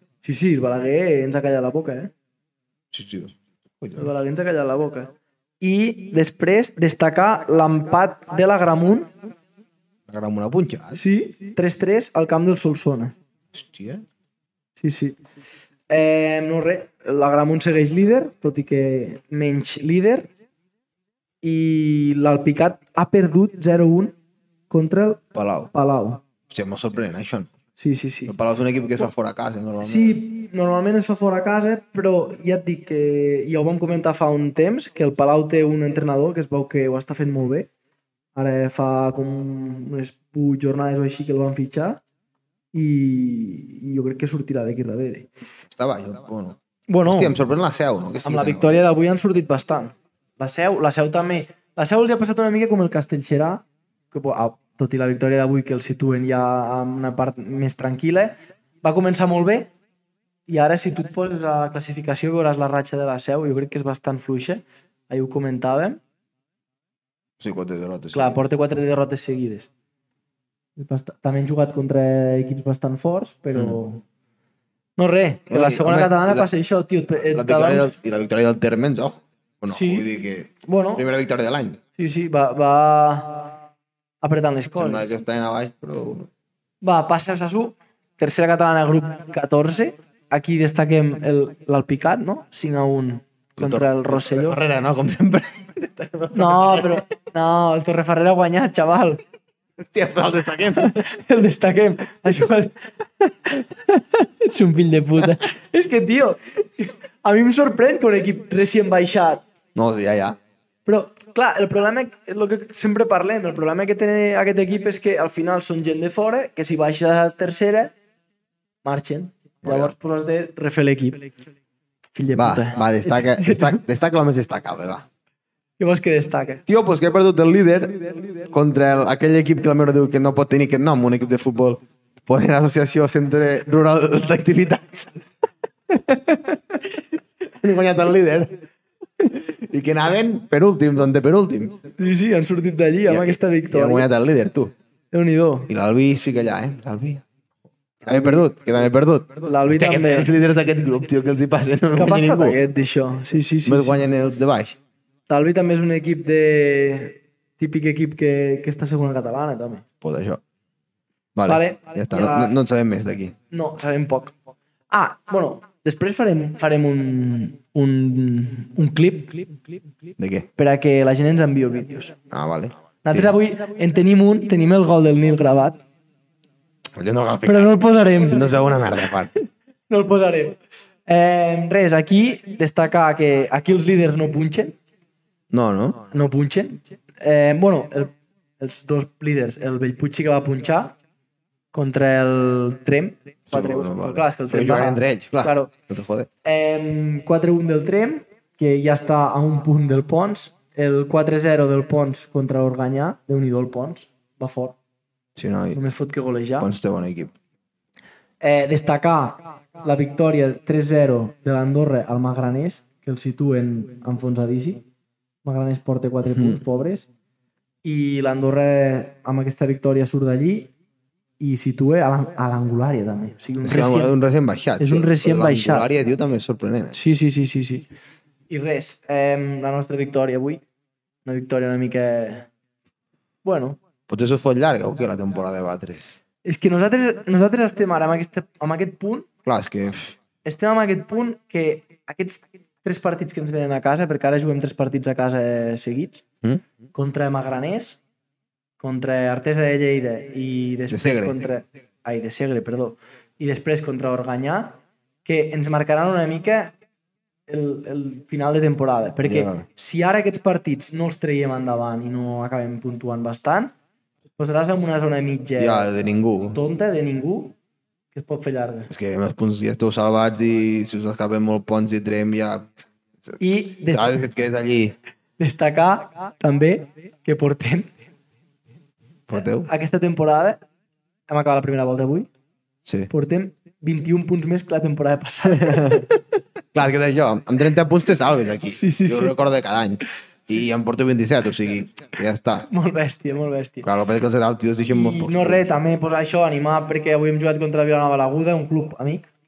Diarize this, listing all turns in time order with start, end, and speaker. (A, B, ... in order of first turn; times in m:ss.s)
0:00.2-0:02.1 A
0:02.9-0:04.1 B
0:04.0-0:09.1 A
0:10.1-0:11.0 B
0:10.9-0:13.1 A
0:13.5-0:14.0 B
0:14.8-0:15.2 A
0:15.9-0:20.3 A
0:21.4-0:24.1 A
0:24.7-0:26.2 A
0:25.3-0:25.7 B
0:26.5-0:27.5 B
0:27.8-0:28.3 A
0:28.3-0:30.2 B
0:29.8-0:37.7 A
0:38.3-0:42.0 A
0:42.7-0:45.3 A
0:45.7-0:48.8 B
0:46.9-0:47.4 A
0:48.2-0:59.7 A
1:00.5-1:06.0 A
1:07.4-1:08.5 B
1:08.1-1:09.7 A
1:10.8-1:14.0 A
1:15.0-1:17.9 A
1:15.5-1:16.5 B
1:17.2-1:21.8 B
1:19.7-1:20.1 A
1:20.6-1:21.0 A
1:22.0-1:23.5 A
1:24.2-1:25.2 A
1:24.8-1:26.3 B
1:26.8-1:34.6 A
1:33.6-1:37.0 B
1:36.3-1:39.2 A
1:39.8-1:41.0 B
1:40.7-1:49.4 A
1:49.7-1:50.4 B
1:50.9-1:57.9 A
1:58.8-2:01.3 A
1:59.6-1:59.9 B
2:02.1-2:03.8 A
2:02.3-2:05.0 B
2:05.8-2:06.6 A
2:06.7-2:15.3 B
2:15.9-2:16.8 A
2:17.4-2:18.6 B
2:19.3-2:21.8 B
2:22.0-2:24.1 A
2:23.1-2:24.7 B
2:25.1-2:25.7 A
2:25.7-2:27.2 B
2:28.0-2:28.4 A
2:28.0-2:32.6 B
2:29.4-2:30.3 A
2:32.0-2:34.0 A
2:33.6-2:34.8 B
2:35.3-2:39.8 A
2:40.0-2:40.4 B
2:41.3-2:43.3 B
2:41.5-2:42.6 A
2:43.5-2:44.3 A
2:44.9-2:49.6 A
2:50.2-2:50.5 B
2:50.6-2:52.1 A
2:52.3-2:53.3 B
2:53.0-2:55.8 A
2:56.9-2:59.3 B
2:57.4-2:58.7 A
2:59.3-3:04.8 A
3:05.5-3:06.0 B
3:06.1-3:10.9 A
3:11.7-3:15.7 A
3:13.5-3:16.3 B
3:16.4-3:24.8 A
3:25.4-3:25.8 B
3:25.7-3:26.7 A
3:26.6-3:27.3 B
3:28.4-3:34.8 A
3:35.4-3:37.0 A
3:36.2-3:36.6 B
3:37.8-3:40.7 A
3:41.4-3:44.2 A
3:43.6-3:47.0 B
3:44.8-3:45.9 A
3:46.9-3:47.9 A
3:48.5-3:50.6 A
3:51.2-3:52.5 A
3:53.4-3:53.8 A
3:54.1-3:56.1 B
3:56.4-3:59.3 A
3:59.4-4:00.1 B
4:00.4-4:06.2 A
4:06.9-4:08.0 A
4:08.8-4:16.7 A
4:10.9-4:11.4 B
4:17.5-4:23.7 A
4:19.2-4:19.6 B
4:24.4-4:25.9 A
4:25.6-4:26.6 B
4:26.5-4:27.6 A
4:28.1-4:28.9 A
4:28.9-4:32.7 B
4:33.2-4:35.0 B
4:33.4-4:34.2 A
4:35.4-4:38.0 A
4:39.3-4:39.7 B
4:39.3-4:40.6 A
4:41.3-4:42.3 A
4:43.1-4:46.4 A
4:45.5-4:46.1 B
4:46.7-4:52.7 B
4:48.7-4:49.4 A
4:52.7-4:53.9 A
4:53.8-4:55.8 B
4:54.9-4:59.3 A